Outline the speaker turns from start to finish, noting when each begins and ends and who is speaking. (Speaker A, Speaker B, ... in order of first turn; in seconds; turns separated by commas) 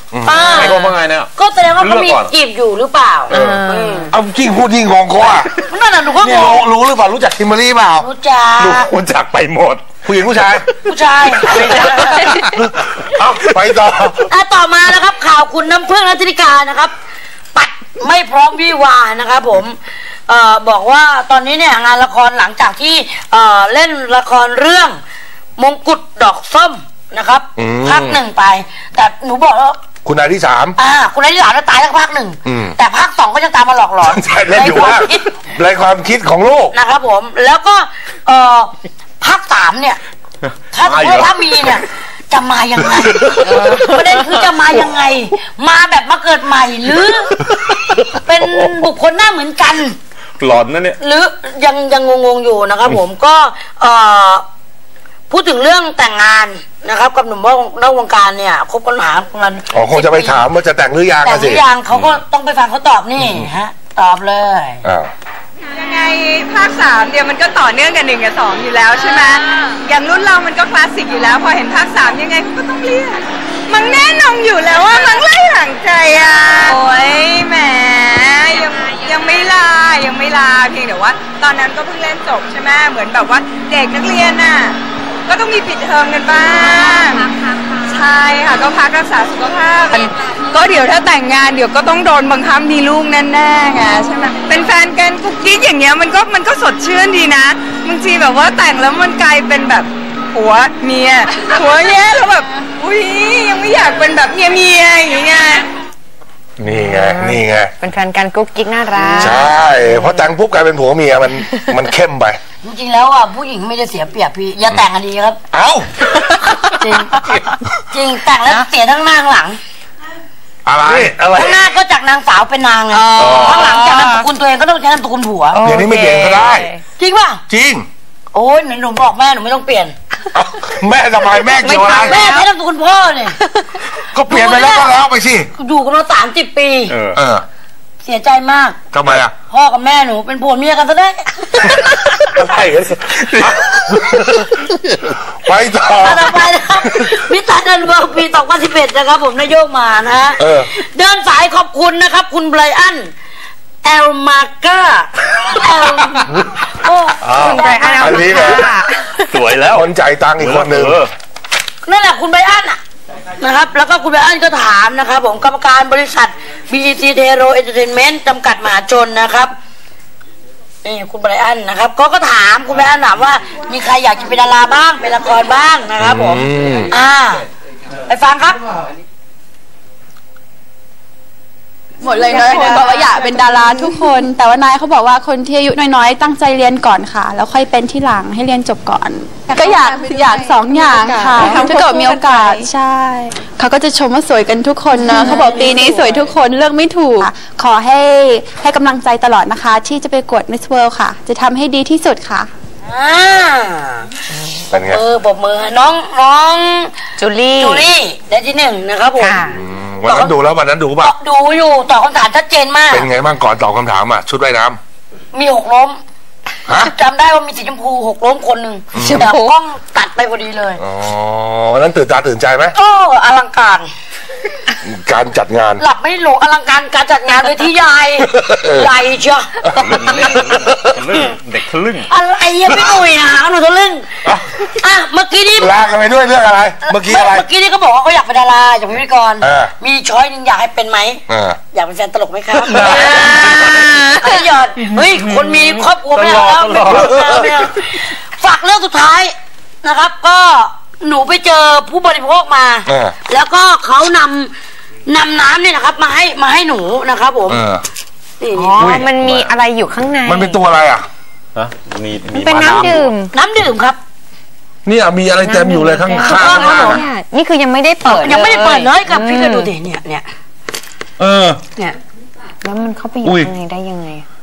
Speaker A: 0.1-0.5, Speaker B: 0.2-4.1, Speaker C: 0.3-2.3, Speaker A: 3.3-5.5, Speaker D: 3.4-4.1, Speaker B: 5.7-6.6, Speaker A: 6.2-8.1, Speaker B: 8.0-8.9, Speaker C: 8.6-9.9, Speaker A: 10.0-10.6, Speaker B: 10.8-12.3, Speaker C: 11.4-12.5, Speaker A: 11.5-11.8, Speaker A: 12.4-14.2, Speaker B: 14.3-16.9, Speaker B: 17.5-25.0, Speaker B: 25.6-29.8, Speaker A: 27.6-28.2, Speaker A: 30.0-30.7, Speaker B: 30.8-35.3, Speaker A: 32.5-32.7, Speaker A: 34.0-36.7, Speaker B: 36.7-40.0, Speaker B: 40.7-47.4, Speaker C: 40.7-41.7, Speaker D: 43.7-44.0, Speaker C: 47.7-48.8, Speaker B: 48.2-50.0, Speaker C: 50.4-51.0, Speaker B: 51.0-54.4, Speaker B: 55.3-60.4, Speaker A: 59.7-61.6, Speaker B: 61.2-64.8, Speaker A: 64.8-65.1, Speaker E: 65.8-105.7, Speaker A: 106.6-107.7, Speaker D: 106.7-110.2, Speaker A: 109.0-112.4, Speaker B: 112.6-115.4, Speaker A: 115.5-116.6, Speaker B: 116.7-119.6, Speaker A: 120.7-121.6, Speaker B: 121.3-125.6, Speaker A: 123.2-123.9, Speaker D: 123.2-124.1, Speaker D: 125.5-126.8, Speaker A: 125.6-126.7, Speaker B: 127.0-127.4, Speaker A: 127.5-127.9, Speaker B: 128.3-129.9, Speaker A: 130.3-132.3, Speaker D: 131.6-132.5, Speaker B: 131.7-133.4, Speaker A: 134.0-135.5, Speaker B: 134.3-134.9, Speaker B: 135.6-136.9, Speaker C: 136.9-137.2, Speaker A: 137.1-137.4, Speaker B: 138.0-138.8, Speaker A: 138.9-139.3, Speaker B: 139.5-141.9, Speaker A: 141.8-144.4, Speaker A: 145.2-146.3, Speaker B: 145.9-153.1, Speaker A: 146.8-147.1, Speaker A: 150.4-150.7, Speaker B: 153.8-158.6, Speaker C: 157.2-157.6, Speaker D: 157.3-159.4, Speaker A: 158.0-158.7, Speaker C: 159.3-161.1, Speaker A: 159.6-161.0, Speaker B: 161.8-162.8, Speaker B: 163.4-169.5, Speaker B: 170.8-177.4, Speaker A: 176.0-176.9, Speaker B: 178.1-178.6, Speaker F: 182.0-202.5, Speaker E: 182.1-184.1, Speaker E: 189.5-192.7, Speaker E: 194.9-196.0, Speaker B: 202.8-204.1, Speaker B: 204.7-206.9, Speaker A: 204.7-205.0, Speaker D: 207.2-207.9, Speaker B: 207.6-209.4, Speaker D: 209.2-209.6, Speaker A: 209.5-211.1, Speaker B: 210.1-210.3, Speaker B: 211.0-213.1, Speaker A: 212.9-214.8, Speaker B: 215.3-216.0, Speaker B: 216.8-220.8, Speaker A: 218.9-219.3, Speaker D: 219.0-219.5, Speaker A: 220.8-222.7, Speaker B: 222.7-223.9, Speaker A: 224.8-225.8, Speaker B: 225.8-230.1, Speaker A: 228.3-228.9, Speaker A: 229.7-229.9, Speaker C: 229.8-232.1, Speaker B: 232.1-234.1, Speaker A: 234.2-234.6, Speaker B: 234.7-235.7, Speaker A: 235.6-237.4, Speaker B: 236.8-254.5, Speaker A: 239.4-239.7, Speaker A: 241.3-241.6, Speaker C: 242.5-244.1, Speaker C: 244.8-247.6, Speaker A: 252.9-253.1, Speaker B: 255.1-257.6, Speaker A: 257.5-257.8, Speaker B: 258.4-258.8, Speaker D: 258.5-260.6, Speaker A: 258.8-259.1, Speaker C: 259.0-259.5, Speaker A: 260.2-261.0, Speaker C: 261.5-263.1, Speaker D: 262.3-263.3, Speaker B: 263.3-264.0, Speaker A: 264.8-267.0, Speaker D: 265.4-269.7, Speaker B: 266.2-267.0, Speaker B: 268.0-270.2, Speaker A: 271.2-271.6, Speaker D: 272.6-274.2, Speaker A: 273.2-273.5